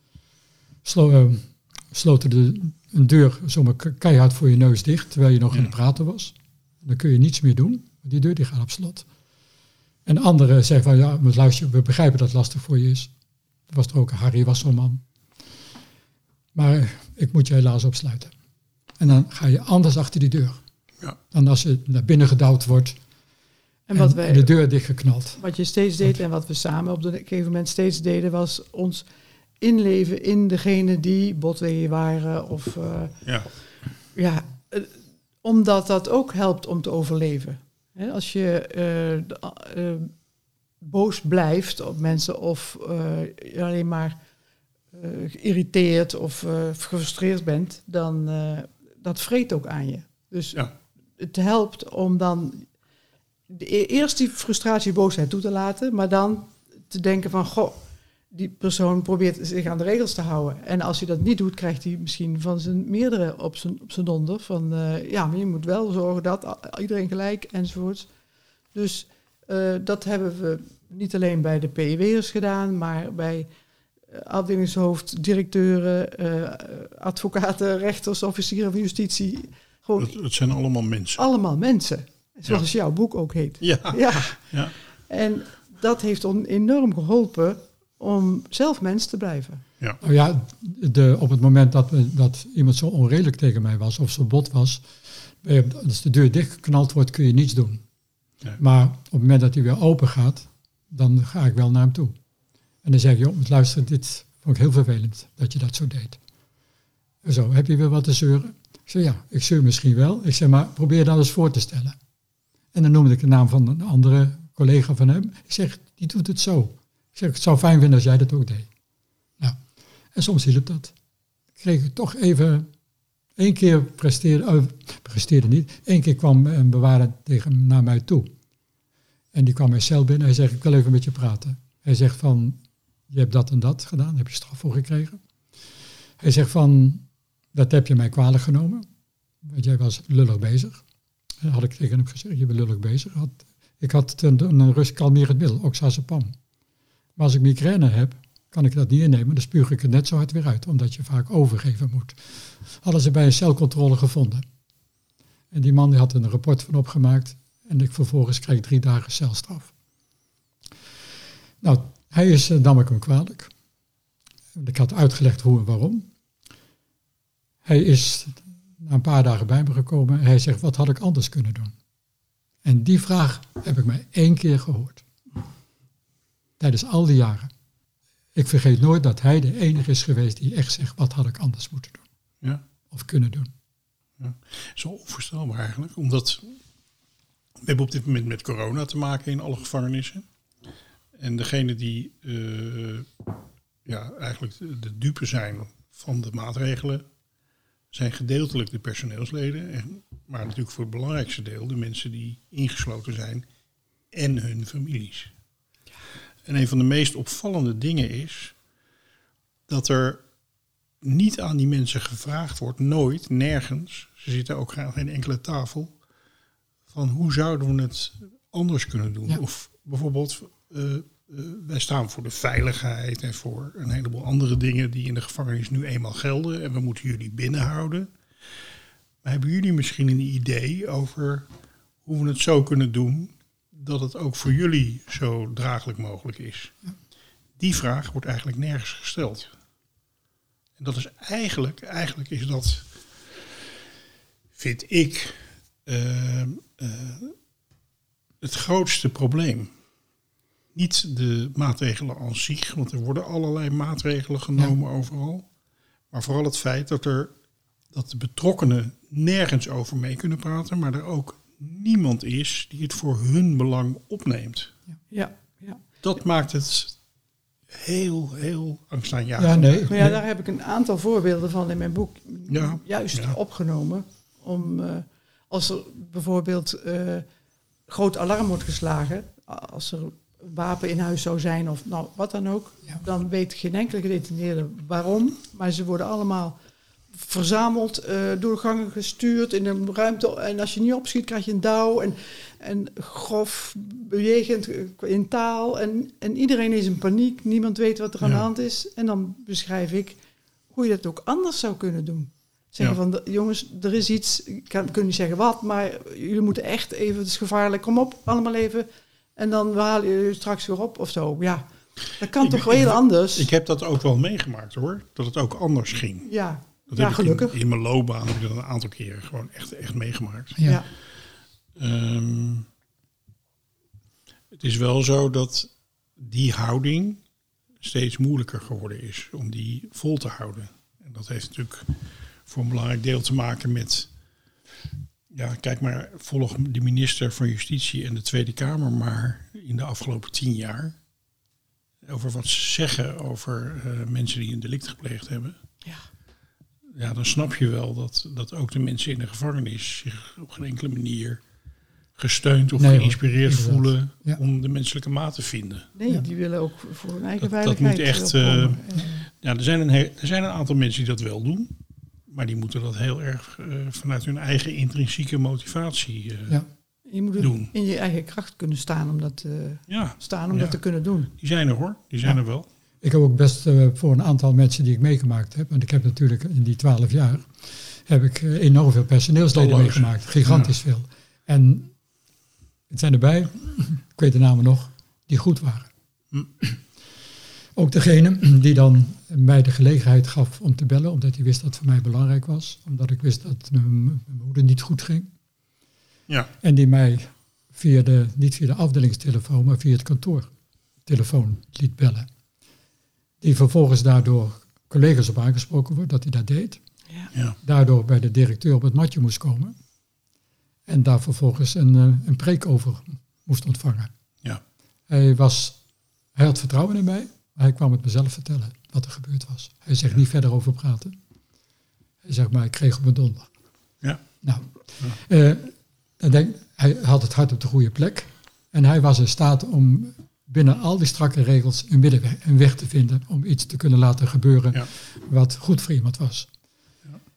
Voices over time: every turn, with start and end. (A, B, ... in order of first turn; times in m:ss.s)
0:00.8-0:09.0 A
0:10.0-0:13.1 A
0:13.7-0:15.0 A
0:16.5-0:18.3 A
0:19.0-0:20.6 A
0:21.3-0:23.0 A
0:23.9-0:24.5 B
0:23.9-0:25.4 A
0:25.4-0:29.0 B
0:29.6-0:33.2 B
0:33.2-0:33.5 C
0:34.1-0:40.1 B
0:40.8-0:44.2 B
0:44.9-0:50.6 B
0:51.2-0:52.7 B
0:53.5-1:08.1 B
1:08.7-1:13.5 B
1:14.1-1:20.1 B
1:20.0-1:21.2 C
1:21.2-1:24.5 B
1:23.6-1:24.7 C
1:25.1-1:29.6 B
1:30.0-1:34.9 A
1:35.4-1:37.8 A
1:38.6-1:42.1 A
1:42.8-1:46.2 A
1:47.2-1:52.0 A
1:52.7-1:58.7 A
2:00.1-2:00.9 A
2:01.6-2:02.7 A
2:03.4-2:08.3 A
2:09.3-2:15.2 A
2:16.2-2:18.9 A
2:19.4-2:20.8 A
2:21.4-2:26.3 A
2:27.2-2:32.2 A
2:32.8-2:34.4 A
2:35.5-2:39.7 A
2:41.6-2:43.5 A
2:44.5-2:46.1 A
2:47.6-2:51.7 A
2:52.6-2:55.0 A
2:56.6-2:57.5 A
2:58.3-3:02.0 A
3:02.9-3:03.5 A
3:04.2-3:06.6 C
3:07.6-3:10.2 C
3:11.2-3:13.1 C
3:13.8-3:17.0 C
3:17.9-3:23.5 C
3:24.1-3:25.3 C
3:26.4-3:28.5 C
3:29.7-3:30.2 C
3:31.0-3:36.0 C
3:36.9-3:48.1 C
3:49.2-3:51.5 C
3:52.0-3:56.7 C
3:57.6-3:59.5 C
4:00.8-4:03.5 C
4:04.6-4:07.3 C
4:08.4-4:09.7 C
4:10.7-4:15.4 C
4:16.1-4:17.3 C
4:17.9-4:24.7 C
4:25.1-4:25.8 B
4:26.0-4:27.0 C
4:27.7-4:30.0 C
4:29.4-4:30.2 A
4:29.9-4:37.2 B
4:32.5-4:33.4 C
4:37.9-4:46.6 B
4:47.1-5:00.2 B
5:00.7-5:13.5 B
5:12.4-5:16.3 C
5:16.2-5:17.6 B
5:16.9-5:20.6 C
5:21.8-5:22.7 C
5:24.5-5:27.2 C
5:27.8-5:34.1 C
5:35.3-5:41.0 C
5:42.0-5:45.6 C
5:46.9-5:51.4 C
5:52.2-5:55.9 C
5:52.8-5:54.4 A
5:55.9-5:59.1 B
5:57.4-6:01.8 C
6:02.3-6:06.6 C
6:07.0-6:11.3 B
6:07.4-6:07.7 C
6:09.9-6:12.7 C
6:13.0-6:21.9 A
6:19.5-6:20.7 C
6:22.9-6:25.9 A
6:27.7-6:35.3 A
6:36.6-6:40.5 A
6:41.0-6:42.3 A
6:43.4-6:46.8 A
6:47.6-6:49.8 A
6:50.9-6:54.1 A
6:55.1-6:55.8 A
6:56.3-7:01.2 A
7:02.2-7:03.5 A
7:04.4-7:16.5 A